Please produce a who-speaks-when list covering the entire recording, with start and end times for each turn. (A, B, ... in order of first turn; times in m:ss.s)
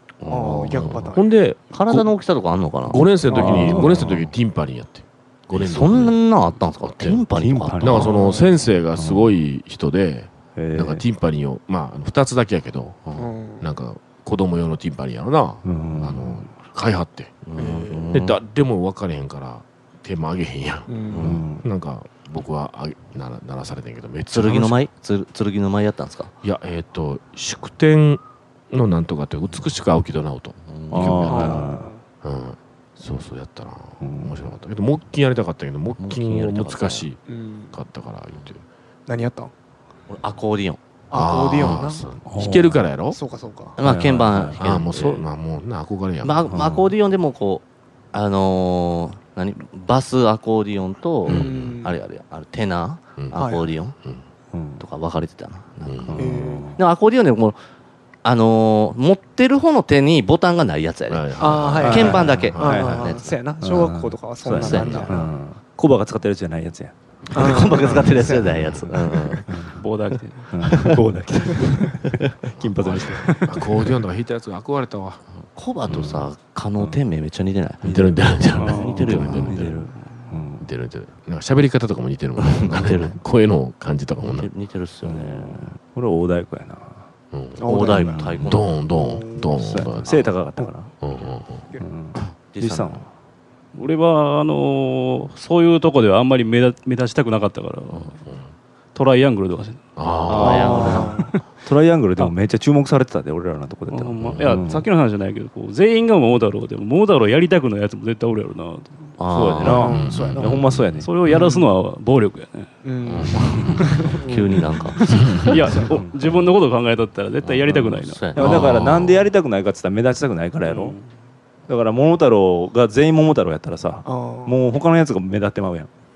0:00.2-0:01.0 A
0:00.2-0:01.2 B
0:00.6-0:02.1 C
0:01.7-0:03.1 A
0:02.8-0:06.2 C
0:03.3-0:04.0 B
0:03.3-0:04.3 D
0:05.5-0:08.1 A
0:06.9-0:07.2 C
0:07.3-0:08.2 D
0:07.8-0:17.5 C
0:08.1-0:08.6 B
0:09.0-0:09.3 D
0:10.6-0:11.0 D
0:13.2-0:13.7 B
0:15.6-0:16.4 D
0:17.5-0:18.4 A
0:17.6-0:18.2 B
0:18.1-0:24.9 C
0:20.9-0:21.3 B
0:21.1-0:21.4 A
0:21.2-0:21.7 D
0:24.3-0:26.3 A
0:26.4-0:31.7 C
0:30.7-0:31.5 A
0:30.9-0:31.9 D
0:31.3-0:32.0 B
0:32.2-0:37.2 C
0:34.0-0:34.4 D
0:36.0-0:37.1 A
0:37.3-0:37.7 B
0:37.7-0:38.6 C
0:39.1-0:39.5 B
0:40.1-0:40.8 A
0:41.1-0:42.1 B
0:41.1-0:43.2 C
0:42.2-0:42.9 D
0:43.1-0:43.8 B
0:43.8-0:45.2 A
0:43.8-0:44.6 D
0:44.6-0:46.5 C
0:46.2-0:54.0 A
0:46.5-0:46.9 D
0:51.3-0:51.8 C
0:51.3-0:52.0 B
0:53.3-0:53.7 B
0:54.0-0:54.2 C
0:54.5-0:54.8 D
0:54.8-0:57.6 A
0:55.8-0:56.2 C
0:56.1-0:56.8 D
0:56.2-0:56.7 B
0:58.2-1:03.4 A
1:01.1-1:02.6 C
1:01.4-1:05.3 B
1:01.8-1:03.1 D
1:03.6-1:07.0 D
1:04.5-1:05.2 A
1:07.3-1:09.7 A
1:07.3-1:08.6 B
1:07.5-1:08.1 D
1:08.4-1:08.9 C
1:09.4-1:09.8 D
1:09.8-1:10.8 E
1:10.5-1:13.6 D
1:12.5-1:15.2 C
1:15.5-1:19.8 A
1:15.9-1:16.2 D
1:17.8-1:19.7 C
1:17.8-1:20.7 D
1:18.6-1:19.1 E
1:20.0-1:20.3 E
1:20.6-1:24.5 C
1:22.4-1:23.2 A
1:24.2-1:25.7 A
1:25.0-1:27.1 D
1:27.3-1:27.7 C
1:27.6-1:28.3 B
1:27.6-1:28.9 A
1:27.8-1:28.6 D
1:28.4-1:30.1 C
1:28.9-1:29.6 B
1:29.6-1:30.9 D
1:30.1-1:30.4 A
1:31.0-1:31.6 C
1:31.8-1:33.1 D
1:32.4-1:33.1 A
1:33.7-1:38.2 E
1:37.9-1:38.4 C
1:39.0-1:39.8 E
1:40.0-1:41.1 C
1:40.3-1:44.9 D
1:40.4-1:41.3 A
1:40.7-1:41.3 B
1:41.2-1:41.4 E
1:43.9-1:49.8 E
1:44.2-1:44.6 C
1:49.2-1:50.0 A
1:49.6-1:51.1 D
1:49.7-1:50.5 B
1:49.8-1:51.1 C
1:51.0-1:52.7 E
1:52.8-1:54.6 B
1:53.1-1:55.4 A
1:53.3-1:53.8 C
1:53.7-1:54.0 E
1:55.0-1:58.6 E
1:55.1-1:55.6 C
1:55.7-1:56.0 B
1:55.8-1:56.1 D
1:57.4-1:59.3 A
1:58.4-2:01.0 D
1:58.4-1:58.8 C
2:00.6-2:01.1 E
2:01.7-2:05.9 D
2:04.0-2:04.6 B